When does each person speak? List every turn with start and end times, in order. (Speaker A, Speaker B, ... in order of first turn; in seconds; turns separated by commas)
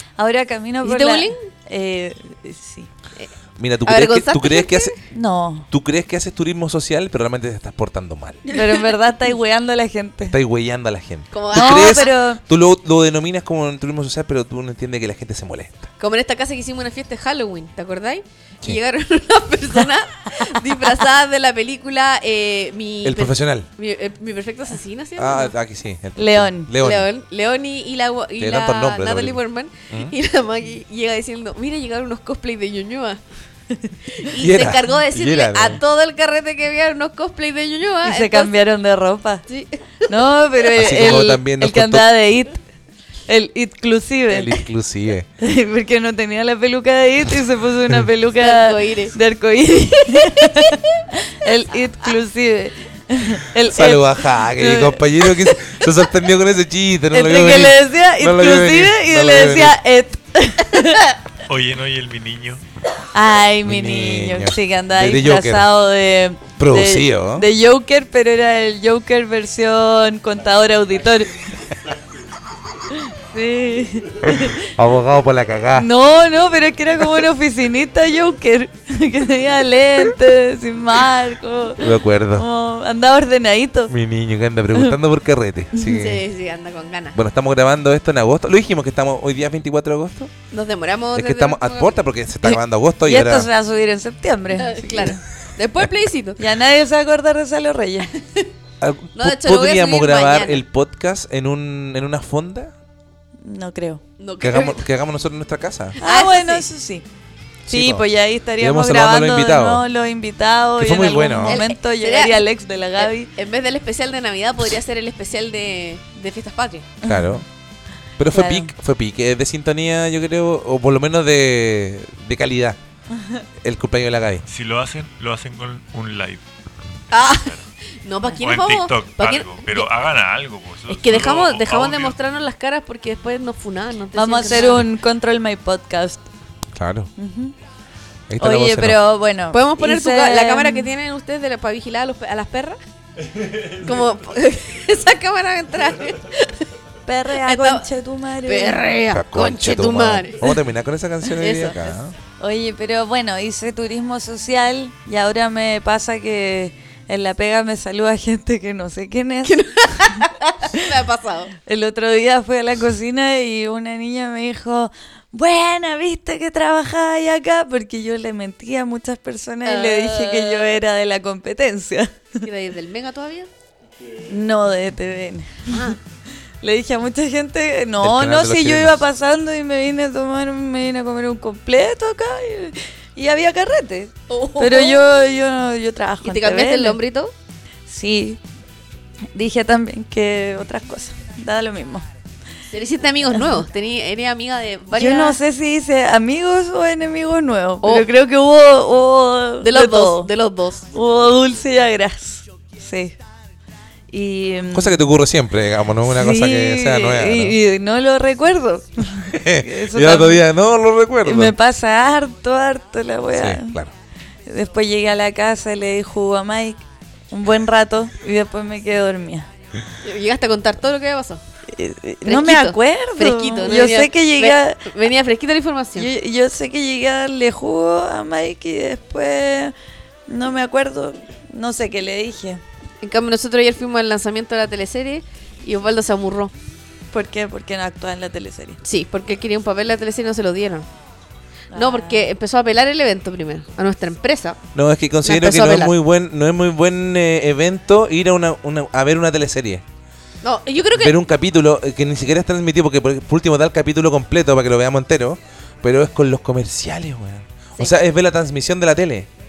Speaker A: 0.2-2.9, Speaker B: 0.8-1.4, Speaker C: 3.6-4.9, Speaker B: 3.9-5.0, Speaker A: 5.1-5.7, Speaker C: 5.7-8.4, Speaker B: 8.4-8.9, Speaker A: 8.5-10.4, Speaker C: 10.2-15.9, Speaker B: 11.3-12.1, Speaker A: 11.5-12.4, Speaker B: 16.0-25.5, Speaker C: 23.0-23.7, Speaker C: 25.2-27.1, Speaker A: 26.2-26.7, Speaker B: 26.8-33.2, Speaker C: 28.4-29.4, Speaker C: 29.9-30.1, Speaker B: 34.1-38.5, Speaker C: 34.4-35.8, Speaker A: 38.0-39.4, Speaker B: 39.5-40.1, Speaker A: 40.1-42.6, Speaker C: 40.7-42.1, Speaker A: 43.3-44.6, Speaker C: 44.3-45.3, Speaker A: 45.4-55.0, Speaker B: 48.4-49.1, Speaker B: 50.3-50.7, Speaker C: 53.7-59.8, Speaker A: 57.1-61.1, Speaker D: 61.5-62.6, Speaker A: 63.1-71.3, Speaker C: 63.6-65.7, Speaker C: 66.6-67.5, Speaker A: 72.9-74.7, Speaker C: 74.2-75.9, Speaker A: 75.7-83.9, Speaker C: 81.8-82.5, Speaker C: 83.9-86.2, Speaker B: 85.9-87.2, Speaker C: 87.1-90.3, Speaker B: 90.5-92.0, Speaker C: 91.1-93.5, Speaker A: 92.4-95.2, Speaker B: 94.5-96.4, Speaker A: 96.4-98.1, Speaker C: 98.8-102.7, Speaker B: 99.2-100.6, Speaker A: 103.4-104.0, Speaker B: 104.2-104.8, Speaker C: 104.4-106.0, Speaker B: 106.0-106.6, Speaker A: 106.0-107.0, Speaker C: 107.7-108.0, Speaker A: 107.7-113.3, Speaker C: 108.6-109.8, Speaker C: 110.8-111.6, Speaker B: 111.5-112.4, Speaker B: 113.0-116.9, Speaker A: 117.0-117.4, Speaker C: 117.0-117.4, Speaker C: 118.2-122.8, Speaker A: 118.3-118.7, Speaker A: 123.1-123.4, Speaker C: 123.6-124.4, Speaker D: 124.5-126.4, Speaker B: 127.1-129.9, Speaker D: 127.1-127.7, Speaker D: 128.4-132.2, Speaker B: 130.9-134.8, Speaker A: 134.1-136.3, Speaker C: 136.7-137.1, Speaker A: 137.2-137.5, Speaker C: 138.3-139.0, Speaker A: 138.4-140.9, Speaker B: 139.5-142.8, Speaker D: 143.2-144.1, Speaker B: 143.8-146.7, Speaker A: 147.1-148.8, Speaker B: 147.4-147.8, Speaker B: 148.4-150.5, Speaker C: 149.1-152.1, Speaker B: 151.3-151.9, Speaker A: 152.4-160.2, Speaker B: 159.4-161.5, Speaker A: 161.6-172.4, Speaker B: 169.6-170.8, Speaker B: 172.4-173.5, Speaker D: 174.0-174.3, Speaker A: 174.3-175.9, Speaker B: 175.7-176.0, Speaker A: 176.6-187.0, Speaker C: 178.0-179.0, Speaker B: 184.3-185.1, Speaker B: 186.2-187.3, Speaker A: 187.9-188.4, Speaker A: 189.3-192.1, Speaker B: 192.7-195.4, Speaker A: 194.9-200.3, Speaker B: 199.6-200.9, Speaker A: 200.9-203.2, Speaker A: 204.1-205.0, Speaker C: 204.7-207.6, Speaker A: 206.0-210.4, Speaker C: 209.2-211.5, Speaker A: 211.2-213.8, Speaker C: 213.3-213.9, Speaker A: 214.4-219.5, Speaker B: 220.0-221.4, Speaker A: 221.7-224.8, Speaker B: 222.2-226.1, Speaker A: 225.9-229.7, Speaker A: 230.3-232.6, Speaker B: 233.0-236.5, Speaker A: 237.1-238.8, Speaker B: 238.8-240.9, Speaker A: 241.7-242.2, Speaker B: 241.7-244.6, Speaker C: 244.7-249.8, Speaker B: 245.2-245.9, Speaker B: 250.4-251.2, Speaker C: 250.9-259.3